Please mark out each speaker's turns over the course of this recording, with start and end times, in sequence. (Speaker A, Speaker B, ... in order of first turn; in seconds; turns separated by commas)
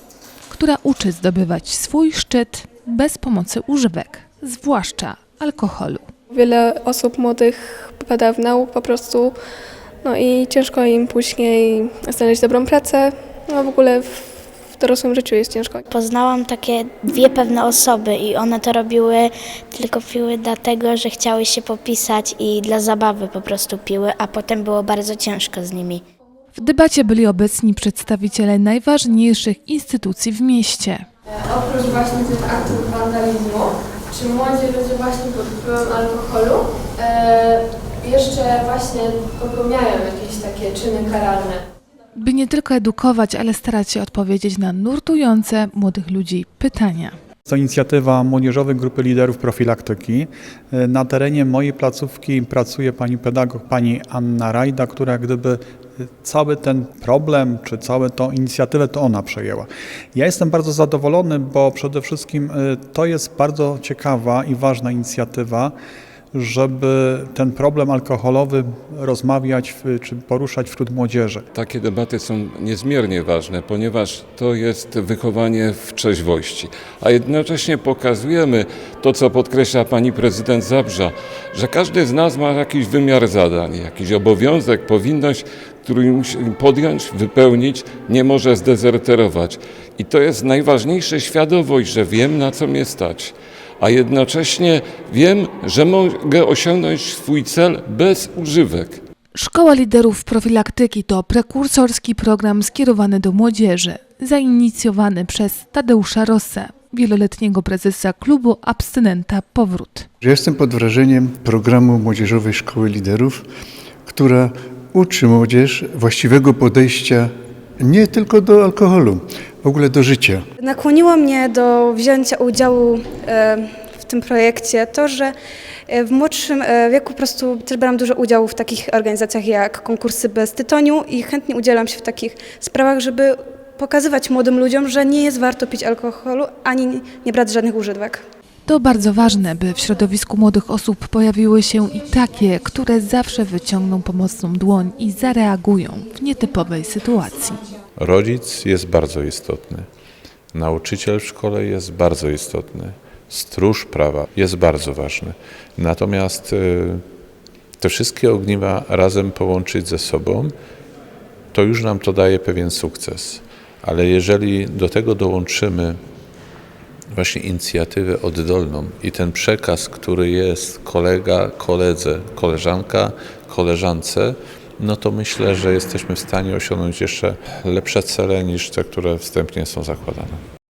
Speaker A: 0.5-6.1, Speaker B: 6.3-9.4, Speaker B: 10.0-15.8, Speaker C: 15.9-26.0, Speaker A: 26.5-31.0, Speaker D: 31.3-41.6, Speaker A: 42.1-47.1, Speaker E: 47.5-55.6, Speaker E: 56.2-65.7, Speaker E: 66.3-71.4, Speaker F: 71.5-99.0, Speaker A: 99.3-110.1, Speaker G: 110.2-113.4, Speaker G: 114.1-120.4, Speaker H: 120.6-125.3, Speaker H: 125.9-138.2, Speaker A: 138.7-147.6, Speaker I: 148.0-149.8, Speaker I: 150.5-157.0, Speaker I: 157.8-160.5, Speaker I: 161.5-166.0, Speaker I: 167.1-180.4